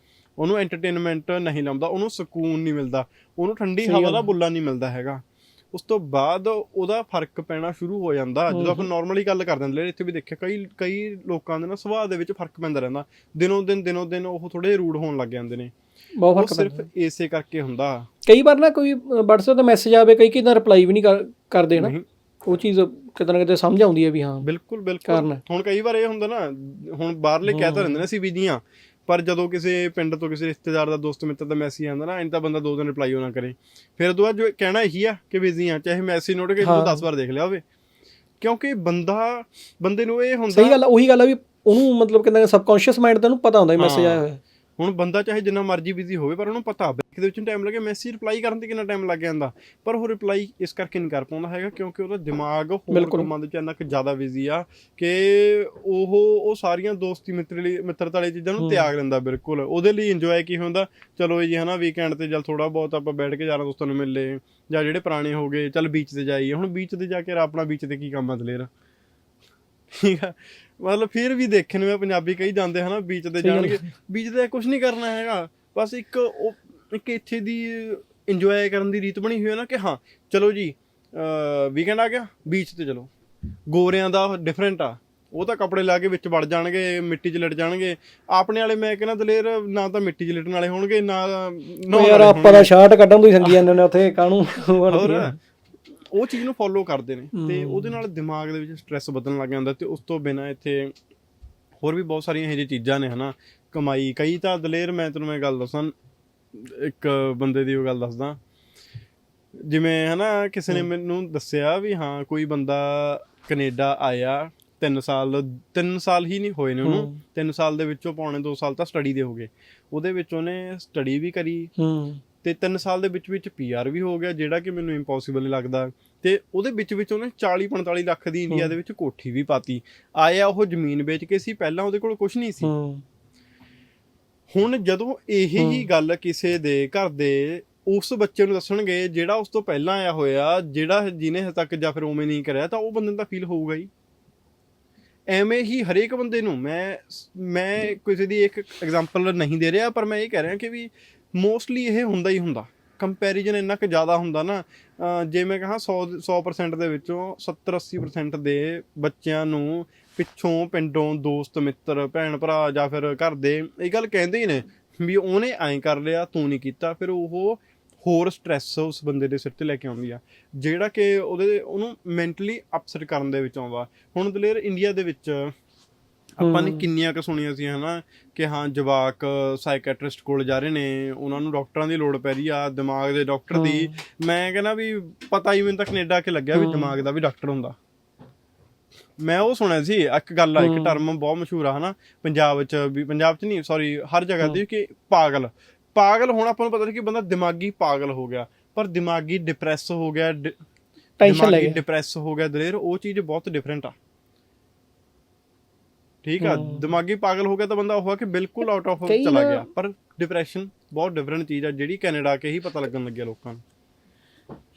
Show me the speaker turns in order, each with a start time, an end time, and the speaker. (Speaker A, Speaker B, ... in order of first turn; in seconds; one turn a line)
Speaker A: 0.4-15.7
Speaker B: 3.9-4.2
Speaker B: 8.5-8.9
Speaker B: 16.2-16.9
Speaker A: 16.3-18.1
Speaker B: 18.2-21.9
Speaker A: 21.8-22.0
Speaker B: 22.4-24.4
Speaker A: 24.4-37.6
Speaker B: 25.1-25.4
Speaker B: 27.5-28.0
Speaker B: 36.6-37.0
Speaker A: 38.4-40.8
Speaker B: 40.5-44.4
Speaker A: 43.8-44.2
Speaker A: 44.8-68.7
Speaker B: 52.9-53.3
Speaker B: 58.6-58.9
Speaker A: 69.9-83.1
Speaker B: 73.4-73.9
Speaker A: 83.7-92.7
Speaker B: 91.9-95.3
Speaker A: 94.9-95.3
Speaker A: 96.1-100.9
Speaker B: 97.3-98.0
Speaker A: 101.8-105.9
Speaker A: 106.5-108.4
Speaker A: 109.6-121.7
Speaker B: 116.8-117.2
Speaker B: 121.8-122.2
Speaker A: 122.4-132.7
Speaker B: 128.5-128.7
Speaker B: 132.6-133.0
Speaker A: 134.5-143.9
Speaker B: 135.6-135.9
Speaker A: 145.3-175.5
Speaker A: 176.4-187.8
Speaker B: 176.4-176.9
Speaker B: 183.5-183.9
Speaker B: 186.5-186.9
Speaker A: 189.2-200.5
Speaker B: 190.6-191.0
Speaker B: 201.2-201.8
Speaker A: 201.2-203.9
Speaker A: 206.2-213.6
Speaker B: 206.4-206.9
Speaker B: 209.0-209.7